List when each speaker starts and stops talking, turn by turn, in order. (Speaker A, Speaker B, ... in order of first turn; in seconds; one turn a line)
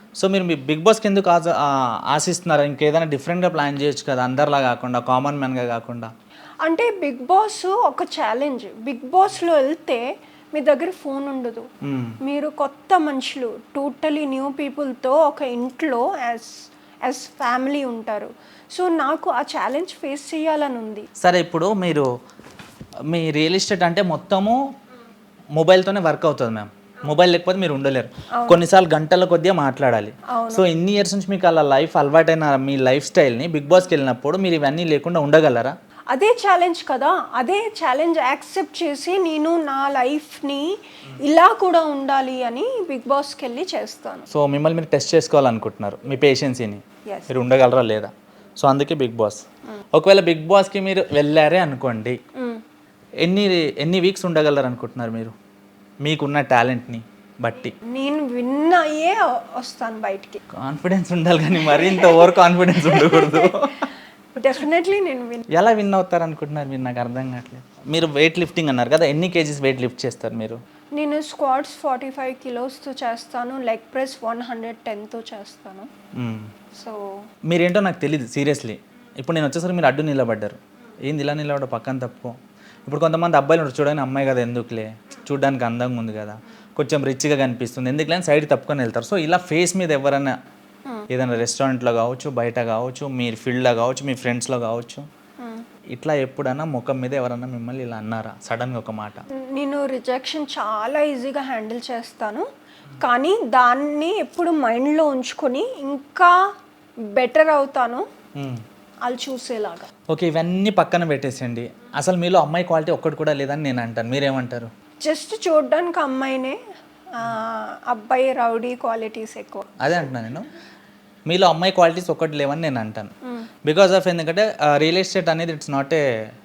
Speaker A: 0.2-6.1
Speaker B: 6.6-11.7
Speaker A: 11.8-12.2
Speaker B: 12.2-21.1
Speaker A: 21.2-22.1
Speaker A: 23.1-24.6
Speaker A: 25.6-35.8
Speaker B: 30.3-30.7
Speaker B: 36.1-44.3
Speaker A: 44.3-49.4
Speaker B: 47.1-47.3
Speaker A: 49.9-52.2
Speaker B: 52.4-52.6
Speaker A: 53.2-55.3
Speaker A: 56.0-57.7
Speaker B: 57.8-60.4
Speaker A: 60.5-63.9
Speaker B: 61.6-63.6
Speaker B: 64.4-65.5
Speaker A: 65.5-70.6
Speaker B: 71.0-75.9
Speaker A: 76.2-76.5
Speaker B: 76.8-77.2
Speaker A: 77.5-90.4
Speaker A: 91.1-95.1
Speaker B: 95.4-95.7
Speaker A: 95.9-99.2
Speaker B: 99.4-102.5
Speaker B: 103.0-106.3
Speaker B: 107.2-108.0
Speaker A: 108.4-108.6
Speaker B: 109.1-109.9
Speaker A: 110.1-114.7
Speaker B: 115.0-116.6
Speaker B: 117.1-119.8
Speaker A: 119.8-120.5
Speaker A: 121.3-123.1
Speaker A: 123.7-126.1